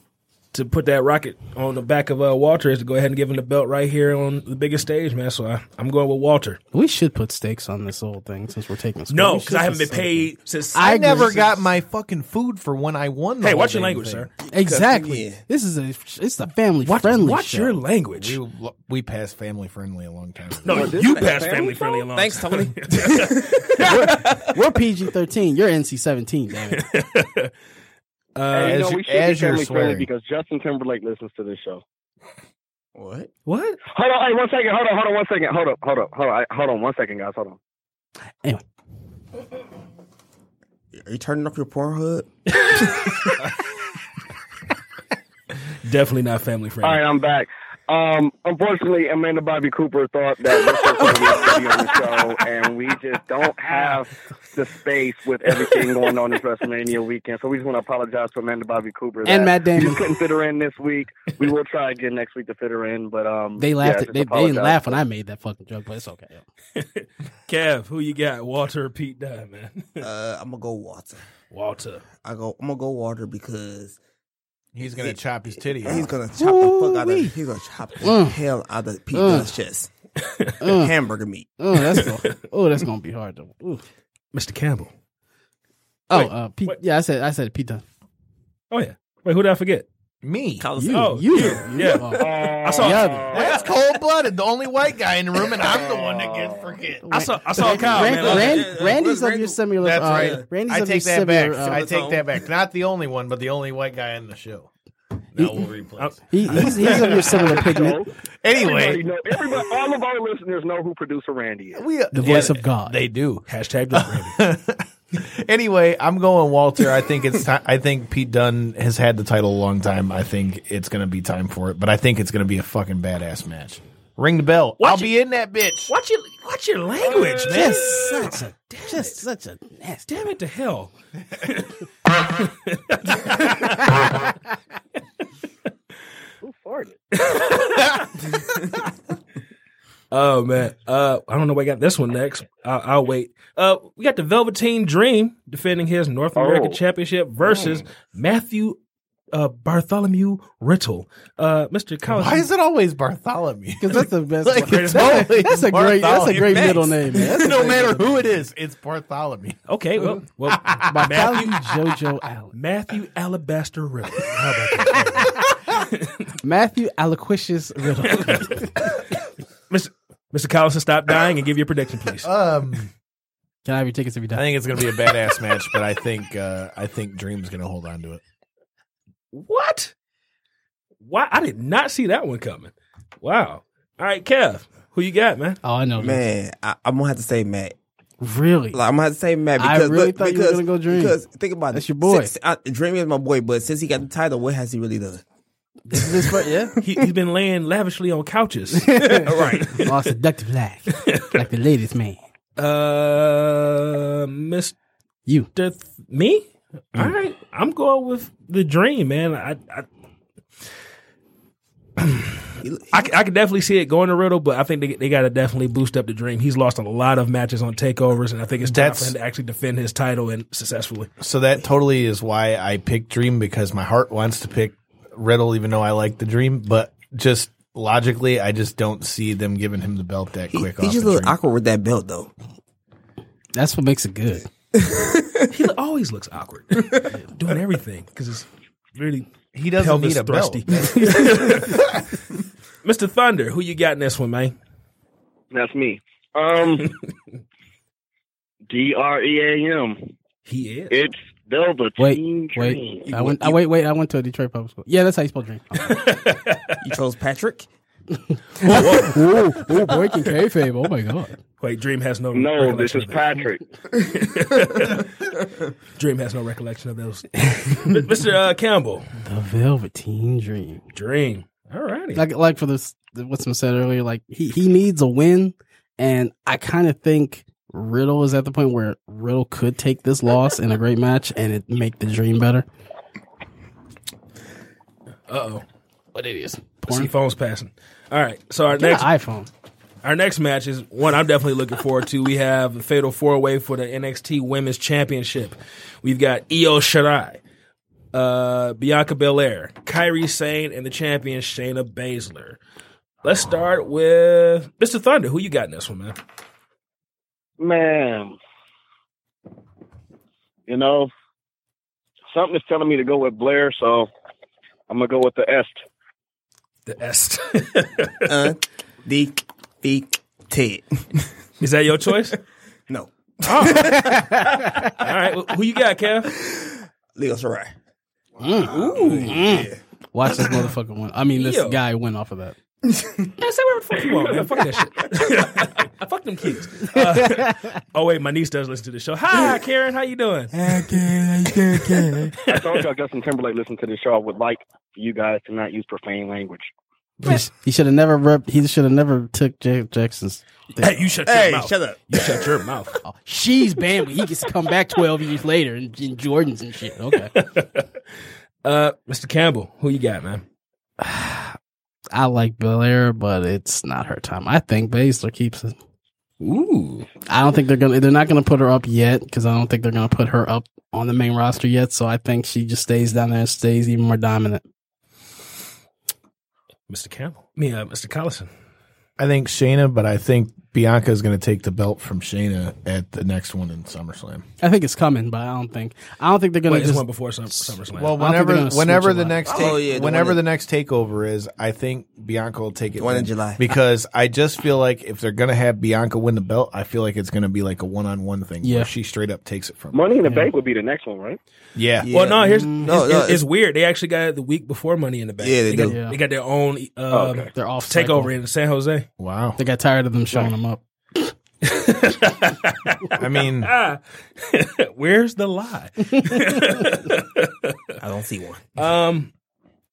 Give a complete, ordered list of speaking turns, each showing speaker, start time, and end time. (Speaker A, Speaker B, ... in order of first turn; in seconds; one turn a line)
Speaker A: 0.5-6.6
Speaker B: 6.7-11.5
Speaker A: 9.1-11.4
Speaker C: 10.7-14.3
Speaker A: 13.4-14.3
Speaker D: 14.4-15.4
Speaker B: 14.5-17.8
Speaker A: 16.8-18.4
Speaker C: 18.1-20.9
Speaker A: 20.6-24.0
Speaker E: 20.7-22.1
Speaker D: 22.1-24.6
Speaker B: 23.8-26.8
Speaker A: 26.7-27.5
Speaker A: 28.4-28.8
Speaker E: 28.5-31.8
Speaker C: 28.6-30.1
Speaker D: 32.9-33.3
Speaker A: 33.5-33.8
Speaker E: 33.9-37.6
Speaker D: 41.0-42.3
Speaker A: 42.5-43.5
Speaker D: 42.8-43.1
Speaker A: 45.8-47.0
Speaker E: 46.8-65.0
Speaker A: 51.0-52.4
Speaker A: 53.7-54.0
Speaker A: 55.5-56.1
Speaker B: 59.2-60.0
Speaker B: 63.6-66.4
Speaker A: 66.8-70.0
Speaker D: 70.0-71.2
Speaker A: 71.5-72.0
Speaker D: 72.2-74.0
Speaker C: 74.7-76.1
Speaker D: 75.8-79.9
Speaker B: 76.3-77.3
Speaker B: 78.0-78.4
Speaker B: 79.1-79.5
Speaker B: 80.6-80.9
Speaker D: 80.7-81.5
Speaker B: 81.6-83.8
Speaker A: 81.9-82.2
Speaker A: 84.3-84.9
Speaker B: 86.1-87.8
Speaker A: 86.1-86.8
Speaker A: 88.7-89.8
Speaker C: 90.2-90.7
Speaker D: 90.6-91.6
Speaker B: 90.8-92.3
Speaker A: 90.9-93.2
Speaker E: 92.2-93.7
Speaker B: 92.8-93.3
Speaker C: 93.3-97.8
Speaker E: 95.6-96.7
Speaker B: 97.0-101.8
Speaker A: 97.1-98.7
Speaker D: 97.8-100.5
Speaker C: 99.8-104.7
Speaker D: 101.6-102.2
Speaker C: 105.3-107.3
Speaker B: 105.4-105.6
Speaker A: 106.0-106.7
Speaker B: 106.3-108.0
Speaker E: 107.3-111.8
Speaker C: 108.4-109.6
Speaker C: 111.8-125.9
Speaker B: 112.1-113.0
Speaker A: 113.5-114.4
Speaker A: 124.8-125.1
Speaker A: 125.9-129.2
Speaker B: 127.5-130.1
Speaker C: 127.5-127.8
Speaker A: 130.1-134.3
Speaker E: 136.4-137.0
Speaker A: 137.2-138.1
Speaker A: 140.1-148.8
Speaker E: 146.3-146.8
Speaker D: 147.5-147.8
Speaker A: 149.3-152.4
Speaker C: 152.1-159.6
Speaker B: 153.8-158.2
Speaker A: 154.6-155.3
Speaker A: 156.1-156.9
Speaker A: 159.7-161.5
Speaker C: 160.4-160.8
Speaker B: 160.8-162.5
Speaker A: 162.5-166.1
Speaker B: 166.4-168.7
Speaker A: 168.1-169.0
Speaker A: 169.7-172.3
Speaker C: 172.2-172.9
Speaker B: 173.6-174.4
Speaker C: 174.3-178.2
Speaker A: 179.3-179.9
Speaker A: 181.0-185.6
Speaker B: 185.6-186.2
Speaker D: 186.0-187.7
Speaker B: 188.2-188.8
Speaker D: 188.7-195.2
Speaker B: 189.6-191.2
Speaker B: 191.7-192.3
Speaker B: 195.9-196.7
Speaker D: 196.0-196.2
Speaker A: 196.8-199.9
Speaker B: 198.8-202.2
Speaker D: 199.1-199.8
Speaker A: 200.9-201.3
Speaker A: 202.6-204.7
Speaker A: 205.5-209.8
Speaker A: 212.0-221.1
Speaker D: 212.6-213.0
Speaker C: 218.6-219.1
Speaker C: 221.2-231.3
Speaker D: 230.5-232.3
Speaker B: 233.5-234.5
Speaker D: 234.7-235.5
Speaker A: 235.5-242.0
Speaker C: 239.5-241.8
Speaker A: 242.8-244.5
Speaker E: 245.5-246.9
Speaker E: 248.7-250.1
Speaker A: 250.4-250.9
Speaker E: 250.9-253.1
Speaker B: 252.0-255.9
Speaker D: 253.1-253.6
Speaker A: 255.8-256.8
Speaker D: 256.8-257.7
Speaker B: 258.1-261.4
Speaker A: 258.6-259.2
Speaker A: 261.6-263.3
Speaker E: 262.3-263.6
Speaker A: 264.0-265.2
Speaker A: 266.0-269.1
Speaker B: 267.4-267.7
Speaker B: 269.2-270.8
Speaker A: 270.9-272.2
Speaker B: 272.1-282.6
Speaker A: 285.3-285.6
Speaker B: 286.1-287.1
Speaker A: 286.9-289.1
Speaker B: 288.7-289.5
Speaker A: 290.0-297.4
Speaker A: 298.1-302.6
Speaker A: 303.2-306.2
Speaker E: 307.6-308.4
Speaker E: 310.7-311.1
Speaker E: 312.3-314.1
Speaker E: 314.9-315.8
Speaker A: 316.9-318.3
Speaker D: 318.3-321.3
Speaker A: 321.6-322.4
Speaker D: 322.9-324.4
Speaker A: 323.4-326.3
Speaker B: 323.7-324.9
Speaker D: 326.3-327.7
Speaker B: 328.4-332.6
Speaker D: 328.4-329.8
Speaker A: 328.7-329.4
Speaker A: 331.4-331.8
Speaker A: 333.3-340.5
Speaker B: 336.9-337.6
Speaker D: 340.6-342.3
Speaker B: 340.6-341.9
Speaker A: 341.8-342.8
Speaker E: 342.5-346.7
Speaker B: 347.2-351.1
Speaker A: 350.8-353.0
Speaker D: 351.2-352.5
Speaker B: 353.0-357.3
Speaker A: 357.3-357.9
Speaker A: 358.6-360.4
Speaker B: 361.0-361.6
Speaker B: 362.1-365.8
Speaker A: 366.4-367.1
Speaker B: 367.2-374.6
Speaker A: 376.9-378.5
Speaker C: 379.2-384.4
Speaker B: 384.6-387.0
Speaker A: 386.7-388.1
Speaker C: 387.9-400.0
Speaker B: 388.2-389.5
Speaker D: 389.5-390.4
Speaker D: 393.0-393.6
Speaker B: 398.6-398.9
Speaker E: 399.9-401.4
Speaker B: 400.2-400.5
Speaker C: 401.7-402.1
Speaker D: 402.0-403.4
Speaker A: 402.1-409.1
Speaker B: 402.4-402.9
Speaker D: 405.4-406.0
Speaker B: 405.8-406.2
Speaker E: 407.1-407.5
Speaker B: 407.5-408.3
Speaker C: 409.2-409.6
Speaker B: 409.6-411.3
Speaker A: 411.6-417.7
Speaker C: 413.1-413.7
Speaker D: 418.0-418.7
Speaker A: 418.8-419.3